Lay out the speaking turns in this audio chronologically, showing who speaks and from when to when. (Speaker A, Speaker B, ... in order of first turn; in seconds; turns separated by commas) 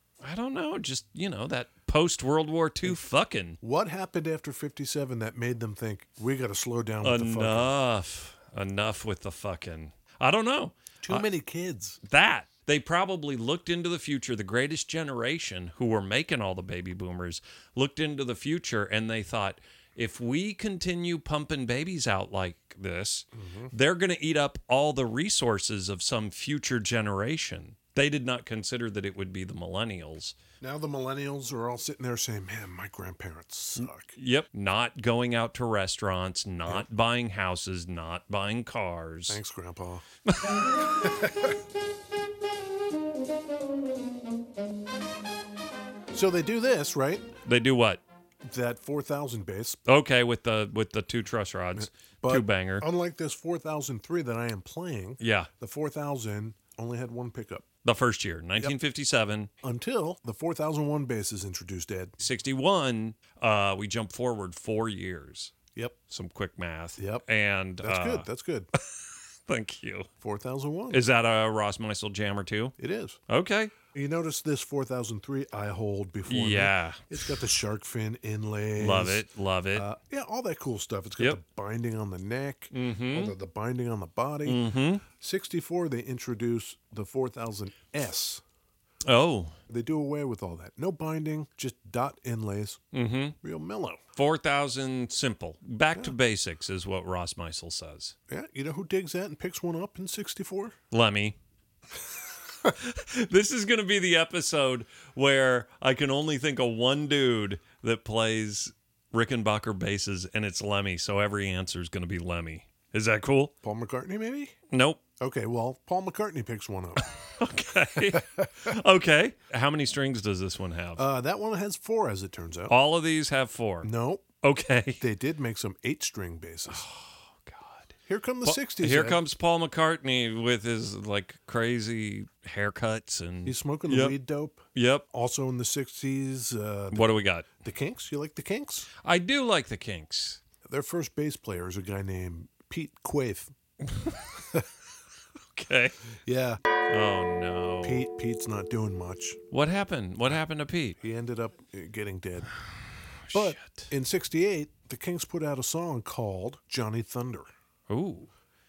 Speaker A: 0.2-3.6, Speaker B: 3.6-7.7, Speaker A: 7.0-11.3, Speaker B: 11.0-12.0, Speaker A: 12.0-30.4, Speaker B: 23.3-23.7, Speaker B: 30.6-34.2, Speaker A: 33.8-39.4, Speaker B: 39.3-40.0, Speaker A: 40.3-40.6, Speaker B: 41.0-41.5, Speaker B: 46.1-47.3, Speaker A: 47.4-48.0, Speaker B: 48.5-49.8, Speaker A: 49.9-52.8, Speaker B: 51.8-57.7, Speaker A: 55.2-55.5, Speaker A: 57.8-59.5, Speaker B: 59.6-62.2, Speaker A: 62.2-65.5, Speaker A: 66.1-68.8, Speaker B: 67.0-67.3, Speaker B: 67.8-68.7, Speaker A: 69.5-70.1, Speaker B: 70.2-71.0, Speaker A: 70.9-72.8, Speaker B: 72.8-73.2, Speaker A: 73.3-73.8, Speaker B: 73.9-88.4, Speaker A: 76.3-77.5, Speaker A: 78.8-79.9, Speaker A: 82.7-83.3, Speaker A: 84.4-85.0, Speaker A: 89.0-89.6, Speaker B: 89.7-92.8, Speaker A: 92.9-93.4, Speaker B: 93.4-94.0, Speaker A: 94.2-98.2, Speaker B: 98.3-100.8, Speaker A: 100.9-101.4, Speaker A: 102.6-113.5, Speaker B: 113.6-114.5, Speaker A: 114.7-115.0, Speaker B: 115.2-117.1, Speaker A: 117.4-121.0, Speaker B: 118.1-118.8, Speaker B: 121.0-122.8, Speaker A: 122.7-123.9, Speaker B: 123.8-124.3, Speaker A: 124.4-125.0, Speaker B: 125.0-126.9, Speaker A: 126.7-127.9, Speaker B: 128.1-129.2, Speaker A: 128.4-134.2, Speaker B: 133.4-138.9, Speaker A: 134.8-135.1, Speaker A: 136.9-137.5, Speaker A: 139.0-140.4, Speaker B: 140.7-143.5, Speaker A: 143.8-144.3, Speaker A: 145.5-145.9, Speaker B: 146.2-146.6, Speaker A: 146.9-148.1, Speaker B: 147.8-149.4, Speaker A: 149.5-151.0, Speaker B: 151.0-152.5, Speaker A: 153.3-153.9, Speaker B: 153.3-157.5, Speaker A: 157.9-158.3